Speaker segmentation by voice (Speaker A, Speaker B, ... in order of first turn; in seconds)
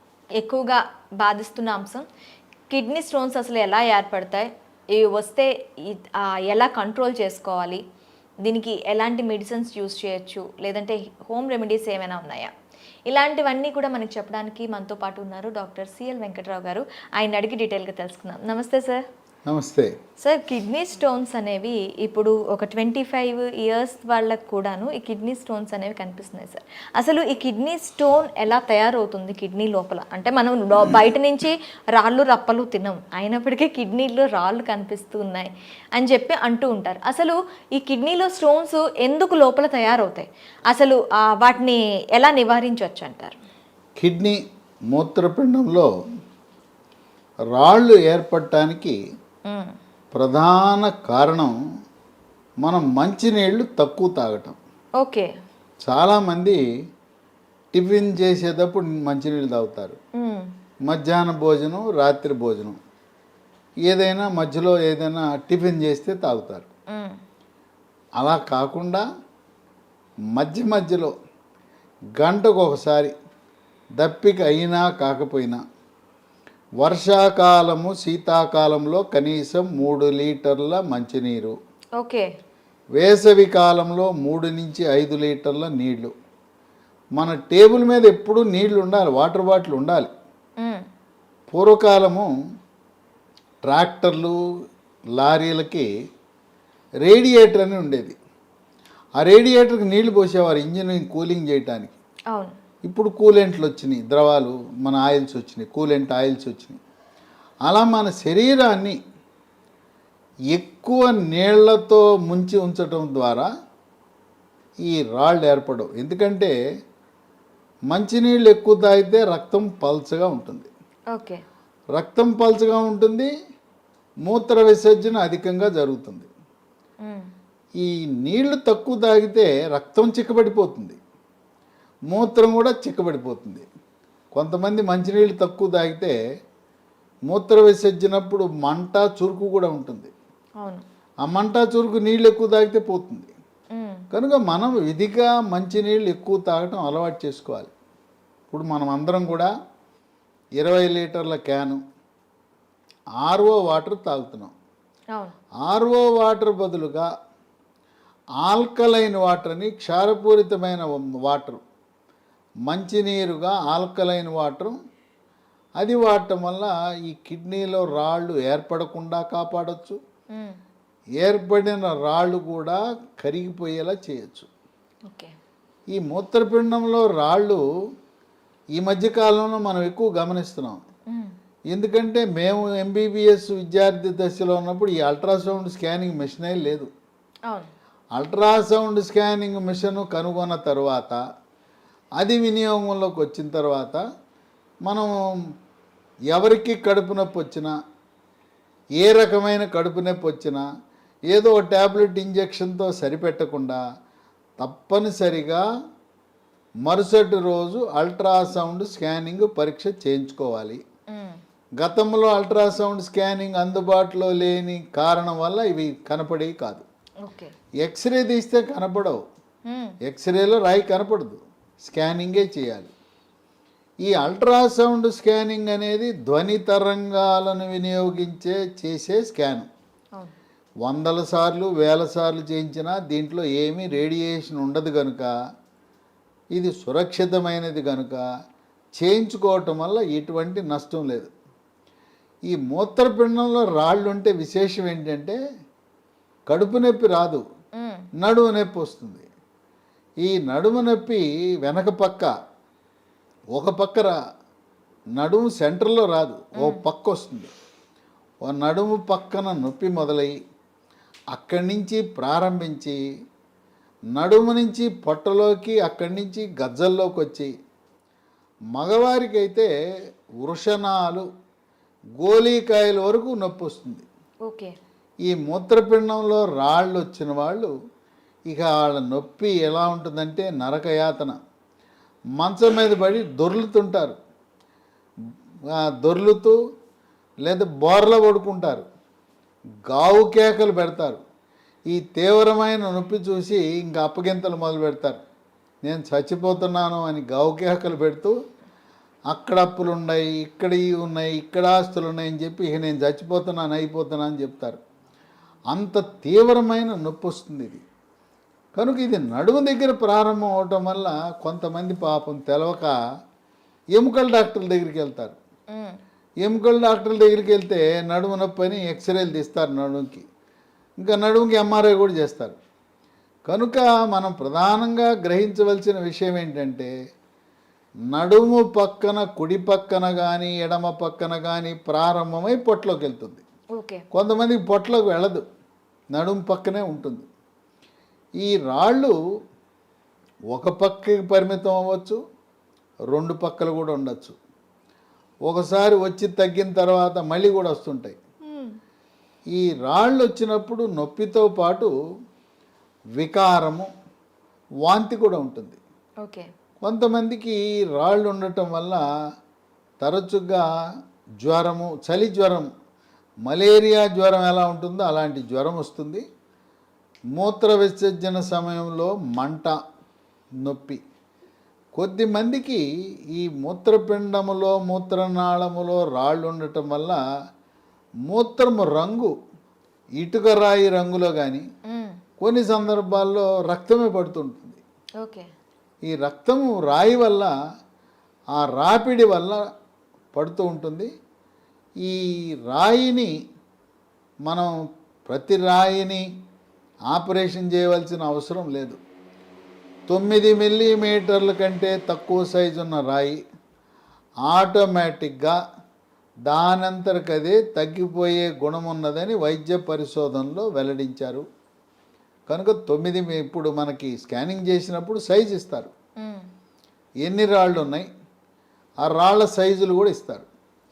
Speaker A: 0.4-2.0, 2.7-7.8, 8.4-12.5, 13.1-19.0, 20.2-43.4, 55.0-55.3, 60.2-60.5, 82.0-82.2, 121.1-121.4, 143.8-144.0, 211.1-211.4, 217.2-217.5, 219.7-219.9, 247.8-248.1, 274.5-274.7, 333.8-334.0, 348.4-348.7, 356.2-356.5, 385.2-385.5
Speaker B: 19.5-19.9, 44.0-45.9, 47.5-49.0, 50.1-51.5, 52.6-54.6, 55.8-56.6, 57.7-60.0, 60.9-62.8, 63.9-66.7, 68.2-69.0, 70.3-71.1, 72.2-73.1, 74.0-75.6, 76.8-81.5, 83.0-86.1, 87.2-90.1, 91.5-92.3, 93.6-94.4, 95.2-95.9, 97.0-98.2, 99.2-101.9, 102.9-106.8, 107.7-109.0, 110.5-113.5, 114.9-116.5, 117.9-120.7, 122.0-123.3, 124.3-126.3, 127.8-131.0, 132.1-133.7, 134.3-136.2, 137.3-140.1, 141.2-143.3, 144.1-147.7, 148.5-149.5, 150.6-151.8, 153.2-154.5, 155.6-157.1, 158.4-161.6, 162.7-164.8, 165.8-170.0, 171.2-174.5, 175.9-177.6, 178.8-180.8, 181.7-186.9, 188.2-191.2, 192.2-194.0, 194.8-195.1, 196.3-197.8, 199.0-200.7, 201.3-203.8, 204.6-205.6, 206.8-210.8, 211.8-216.8, 217.8-219.2, 220.1-222.9, 224.0-229.7, 230.8-235.3, 236.5-238.2, 239.0-241.3, 242.5-245.4, 246.5-247.4, 248.2-249.3, 250.2-252.3, 253.5-254.1, 255.2-257.5, 258.4-260.3, 261.3-263.0, 264.1-267.5, 268.7-269.7, 270.4-271.2, 272.2-274.1, 275.2-277.7, 278.5-281.4, 282.4-284.1, 285.7-286.6, 287.4-288.9, 289.9-291.2, 291.9-295.2, 295.8-298.3, 299.3-304.8, 305.7-307.8, 308.8-312.9, 313.9-315.4, 316.4-320.2, 321.0-322.6, 323.5-326.9, 328.1-333.4, 334.1-335.4, 336.1-337.3, 338.4-339.1, 340.5-342.2, 343.1-344.4, 345.4-348.2, 349.5-351.9, 353.2-353.9, 354.8-355.8, 356.8-359.0, 360.0-360.7, 361.4-362.7, 363.5-366.2, 367.4-369.8, 370.6-371.0, 371.9-372.8, 373.3-377.2, 378.3-379.3, 380.2-381.6, 382.4-384.8, 386.1-387.5, 388.6-389.6, 390.3-391.1, 392.0-393.3, 394.5-394.7, 395.3-396.3, 397.1-399.0, 400.1-403.4, 404.5-405.6, 406.5-411.4, 412.5-415.9, 417.2-418.1, 419.0-420.5